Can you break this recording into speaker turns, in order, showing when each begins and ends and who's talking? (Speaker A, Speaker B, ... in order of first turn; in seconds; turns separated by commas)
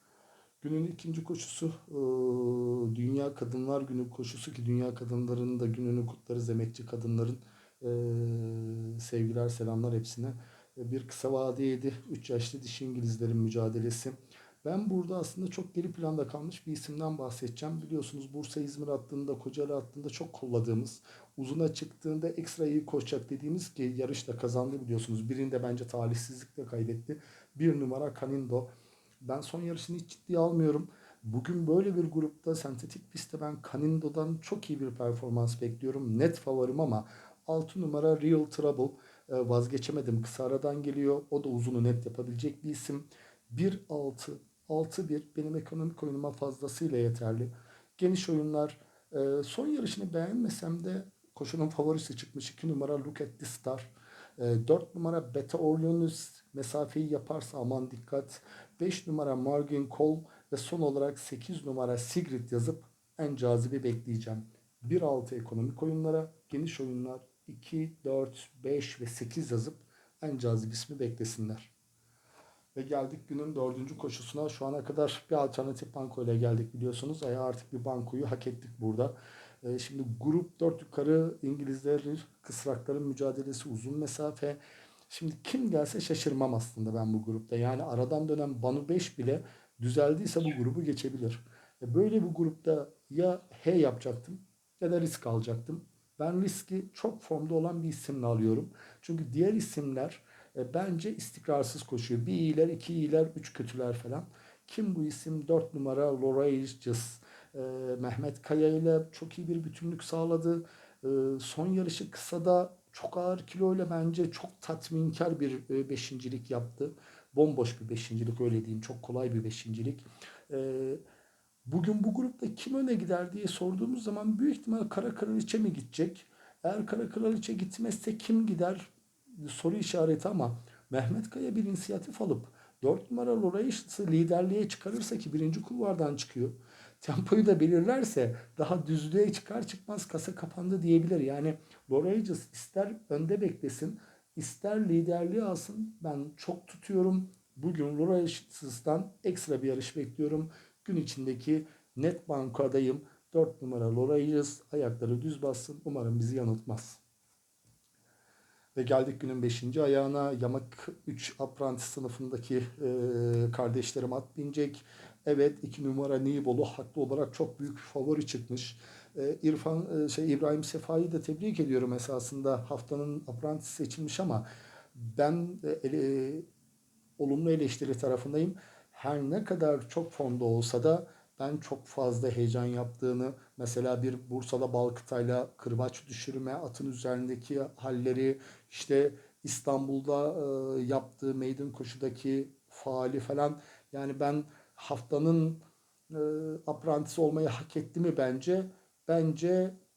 Speaker A: 0.6-28.7, Speaker A: 29.2-71.7, Speaker A: 72.7-121.0, Speaker A: 121.7-157.0, Speaker A: 158.7-176.4, Speaker A: 177.2-199.7